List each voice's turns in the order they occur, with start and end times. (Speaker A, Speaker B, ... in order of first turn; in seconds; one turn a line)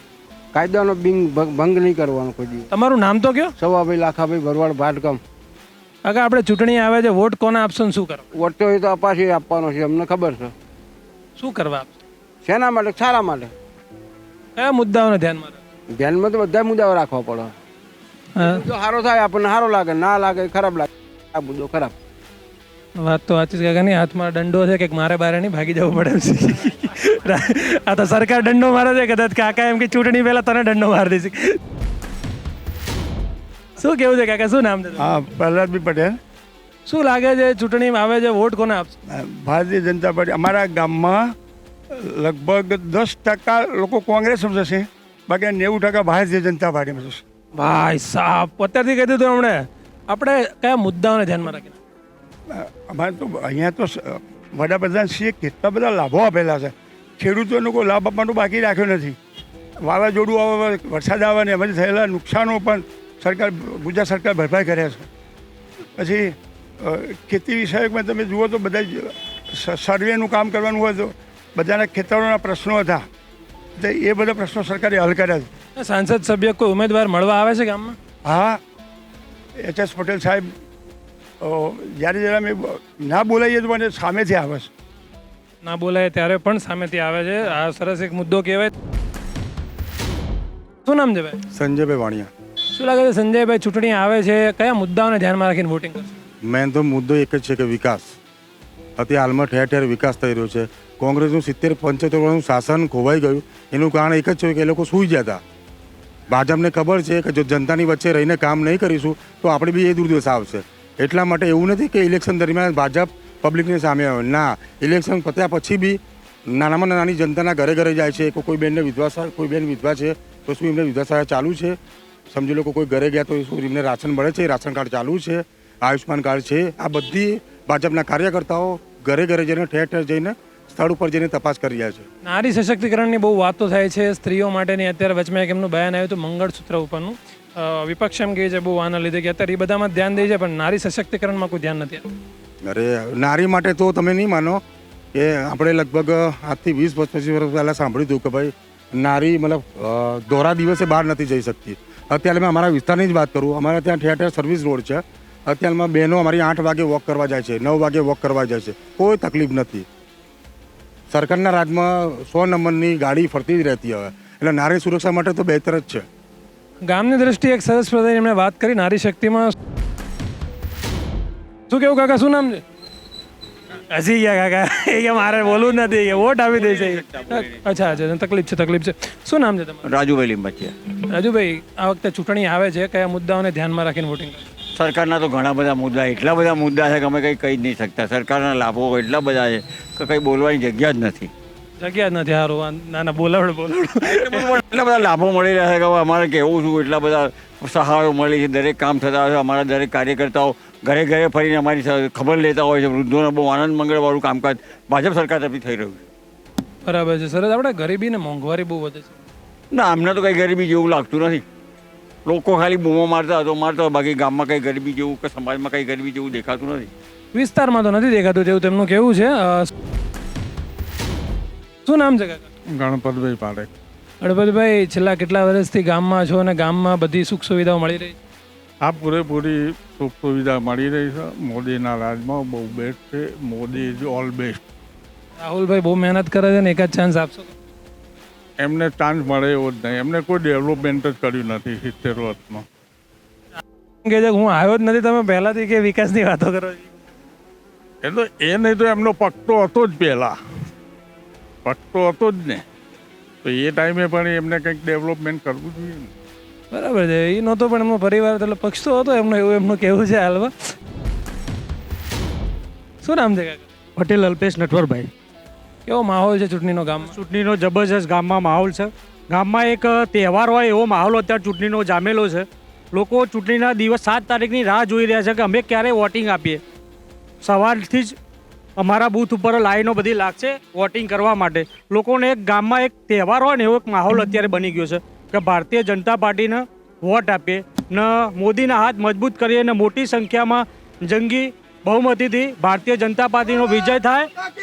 Speaker A: 0.5-2.7
Speaker B: 2.7-3.5
Speaker A: 3.6-5.2
Speaker B: 6.0-8.2
Speaker A: 8.3-10.5
Speaker B: 11.4-11.9
Speaker A: 12.4-13.5
Speaker B: 14.6-15.6
Speaker A: 15.9-17.5
Speaker B: 18.4-18.6
Speaker A: 18.4-21.9
Speaker B: 23.0-31.6
Speaker B: 33.8-35.0
Speaker C: 35.0-36.2
Speaker B: 36.9-38.9
Speaker C: 39.1-41.3
Speaker C: 41.9-47.2
Speaker B: 47.5-51.8
Speaker C: 52.5-59.1
Speaker C: 59.8-65.1
Speaker C: 66.0-73.0
Speaker C: 73.8-75.5
Speaker B: 75.8-78.0
Speaker C: 78.2-78.6
Speaker C: 79.6-80.5
Speaker C: 81.4-84.7
Speaker B: 85.6-88.7
Speaker B: 90.8-91.4
Speaker D: 91.5-92.3
Speaker B: 92.7-96.2
Speaker D: 96.4-98.2
Speaker D: 99.0-105.4
Speaker D: 106.3-121.8
Speaker D: 122.3-132.1
Speaker B: 132.2-142.0
Speaker D: 142.6-144.6
Speaker D: 145.1-159.8
Speaker D: 161.1-166.1
Speaker B: 166.8-169.5
Speaker B: 171.7-172.6
Speaker B: 173.9-179.8
Speaker E: 179.8-180.7
Speaker B: 181.1-184.4
Speaker E: 184.8-191.3
Speaker B: 191.8-194.5
Speaker E: 194.1-206.0
Speaker B: 206.8-209.1
Speaker E: 209.7-211.4
Speaker E: 212.2-216.9
Speaker B: 217.3-219.7
Speaker B: 221.8-222.5
Speaker F: 222.7-223.7
Speaker B: 224.2-228.2
Speaker F: 228.8-234.6
Speaker B: 235.4-237.5
Speaker F: 238.6-242.6
Speaker B: 244.0-246.9
Speaker F: 248.0-250.3
Speaker F: 251.6-252.6
Speaker F: 253.4-256.1
Speaker B: 256.7-260.7
Speaker B: 263.0-263.6
Speaker G: 264.0-265.1
Speaker B: 265.9-267.1
Speaker G: 267.1-276.6
Speaker G: 277.4-278.1
Speaker G: 278.8-294.3